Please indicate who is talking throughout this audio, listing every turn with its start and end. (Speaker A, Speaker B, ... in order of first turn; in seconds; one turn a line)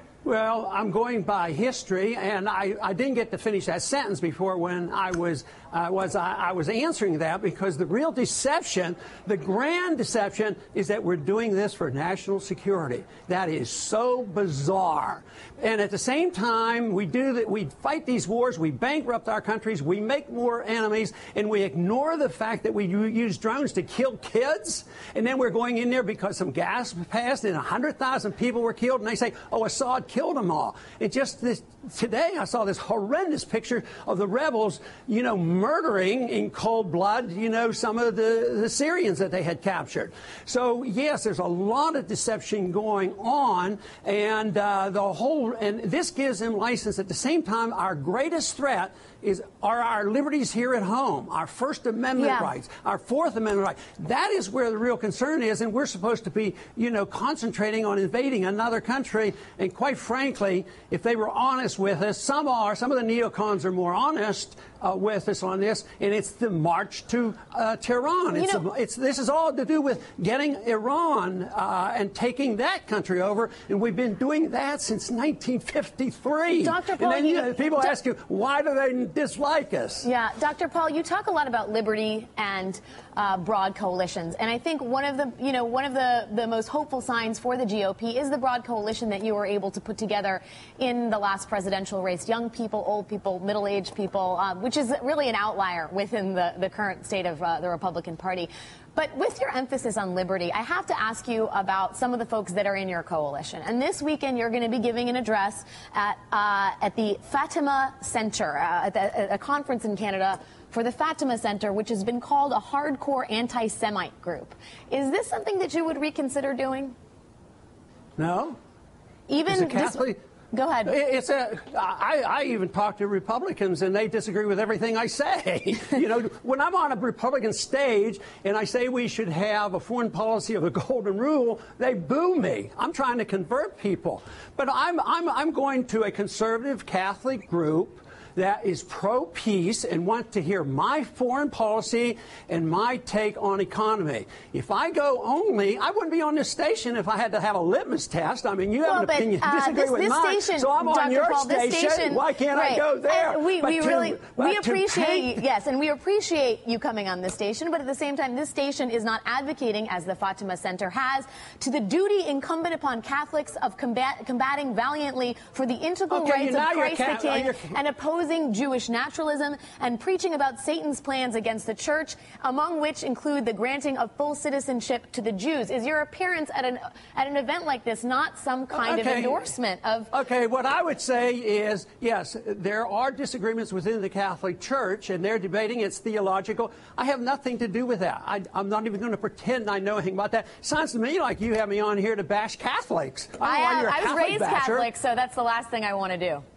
Speaker A: 0.2-80.0
Speaker B: 52.2-52.5
Speaker B: 68.3-68.6
Speaker B: 76.6-77.9
Speaker B: 80.0-116.9
Speaker A: 118.2-118.6
Speaker B: 119.3-120.9
Speaker A: 119.5-120.2
Speaker A: 120.8-155.3
Speaker B: 148.8-180.1
Speaker A: 166.1-167.7
Speaker A: 178.7-179.4
Speaker A: 180.1-194.9
Speaker B: 193.4-196.4